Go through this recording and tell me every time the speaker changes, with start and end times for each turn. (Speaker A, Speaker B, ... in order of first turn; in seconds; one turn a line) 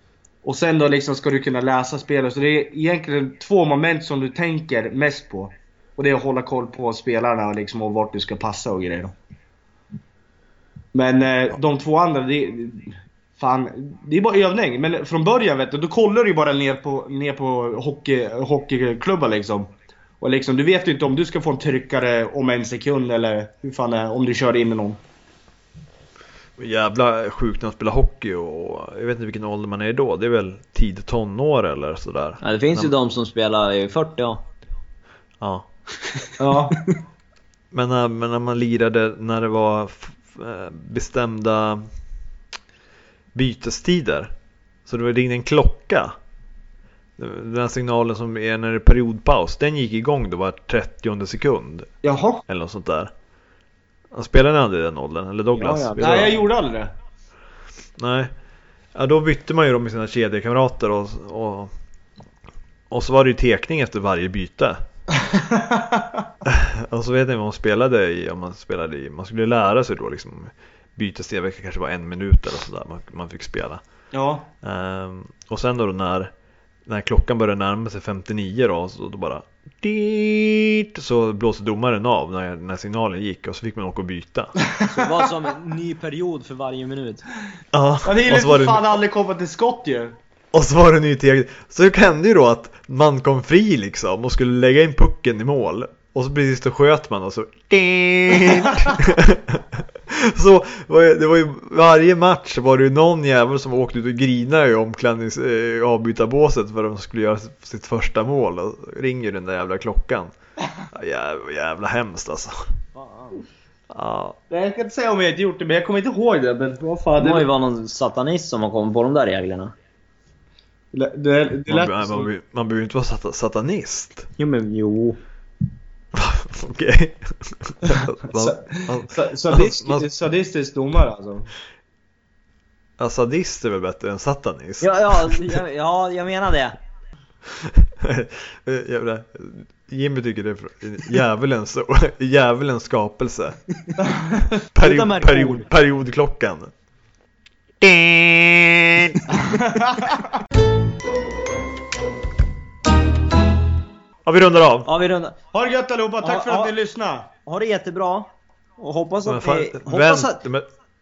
Speaker A: 0.4-9.1
Speaker A: 10.9-25.0
Speaker B: 26.6-32.9
Speaker C: 32.4-34.4
Speaker B: 35.4-35.7
Speaker A: 36.4-36.8
Speaker B: 37.7-41.9
Speaker B: 43.3-44.3
Speaker B: 44.9-46.1
Speaker B: 47.2-51.9
Speaker A: 52.0-52.4
Speaker B: 52.5-53.1
Speaker B: 54.1-56.4
Speaker C: 55.5-56.4
Speaker A: 56.0-56.9
Speaker B: 58.0-58.3
Speaker B: 58.9-61.7
Speaker B: 62.9-64.8
Speaker A: 65.2-66.2
Speaker B: 66.5-73.8
Speaker A: 74.1-74.5
Speaker B: 74.6-76.3
Speaker B: 76.9-84.6
Speaker C: 84.9-87.3
Speaker B: 87.7-89.0
Speaker A: 88.0-90.2
Speaker B: 90.5-110.3
Speaker B: 110.9-112.6
Speaker C: 113.0-113.4
Speaker B: 113.9-114.4
Speaker A: 114.5-117.5
Speaker C: 117.2-119.7
Speaker A: 120.9-122.3
Speaker B: 121.7-124.3
Speaker C: 124.4-125.2
Speaker B: 126.1-130.1
Speaker A: 128.3-131.5
Speaker B: 133.0-135.6
Speaker C: 134.8-136.8
Speaker B: 137.5-143.6
Speaker A: 144.0-144.6
Speaker B: 144.7-146.7
Speaker C: 144.8-145.7
Speaker B: 147.8-149.2
Speaker A: 149.3-150.3
Speaker B: 154.2-154.9
Speaker C: 154.9-155.4
Speaker A: 155.5-157.3
Speaker C: 156.2-156.8
Speaker C: 157.5-160.4
Speaker B: 159.2-160.7